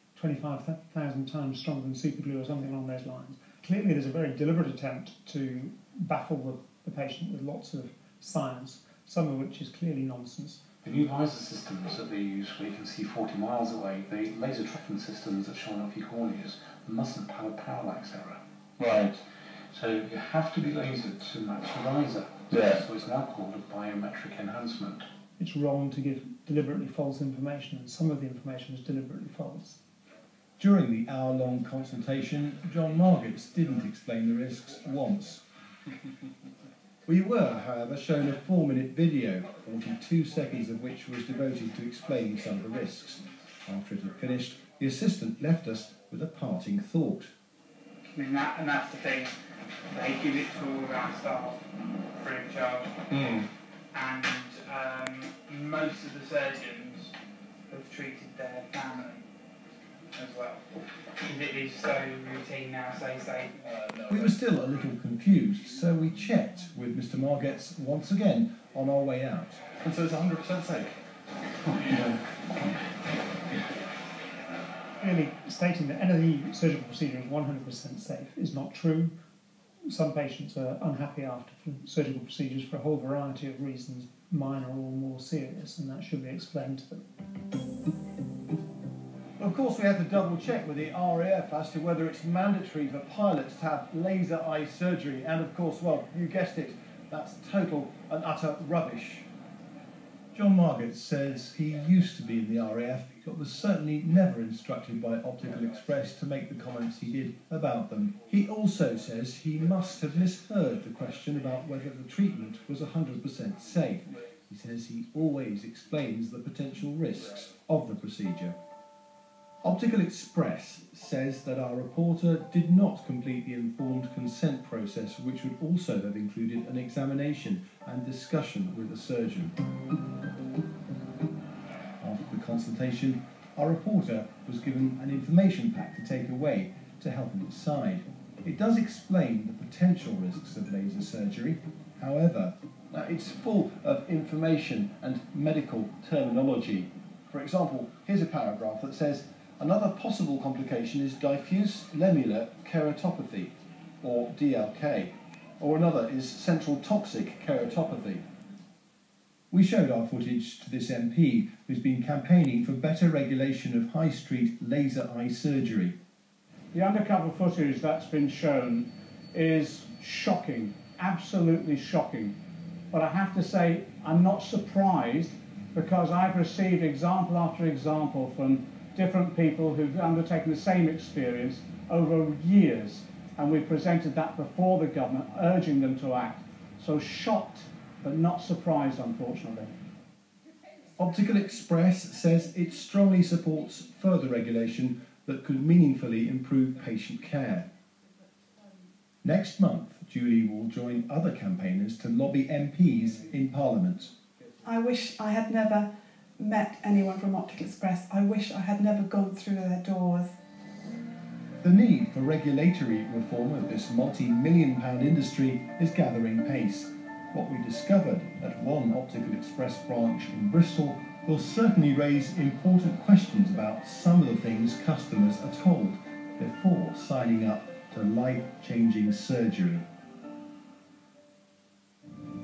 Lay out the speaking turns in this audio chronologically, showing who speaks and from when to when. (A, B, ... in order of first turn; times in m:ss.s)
0:00.2-0:10.6 A
0:10.8-0:18.4 B
0:18.8-0:19.2 C
0:19.7-0:25.0 B
0:22.5-0:22.8 C
0:25.4-0:29.8 A
0:30.6-0:35.4 D
0:37.1-0:47.3 D
0:48.1-0:49.3 E
0:49.9-0:51.6 E
0:52.2-0:52.9 E
0:53.1-0:53.5 C
0:53.9-0:57.1 E
0:57.7-0:59.2 E
1:00.1-1:00.6 E
1:01.2-1:03.5 E
1:03.6-1:04.3 C
1:04.1-1:09.6 D
1:09.8-1:10.9 C
1:11.6-1:12.9 B
1:15.0-1:19.1 A
1:19.9-1:27.0 A
1:29.4-1:39.2 D
1:40.3-1:58.6 D
1:59.6-2:09.5 D
2:12.0-2:38.2 D
2:39.5-2:46.0 D
2:46.7-2:52.4 F
2:52.9-3:09.7 F
3:11.0-3:17.7 D
3:19.2-3:24.1 D
3:24.6-3:30.3 G
3:31.6-3:49.9 D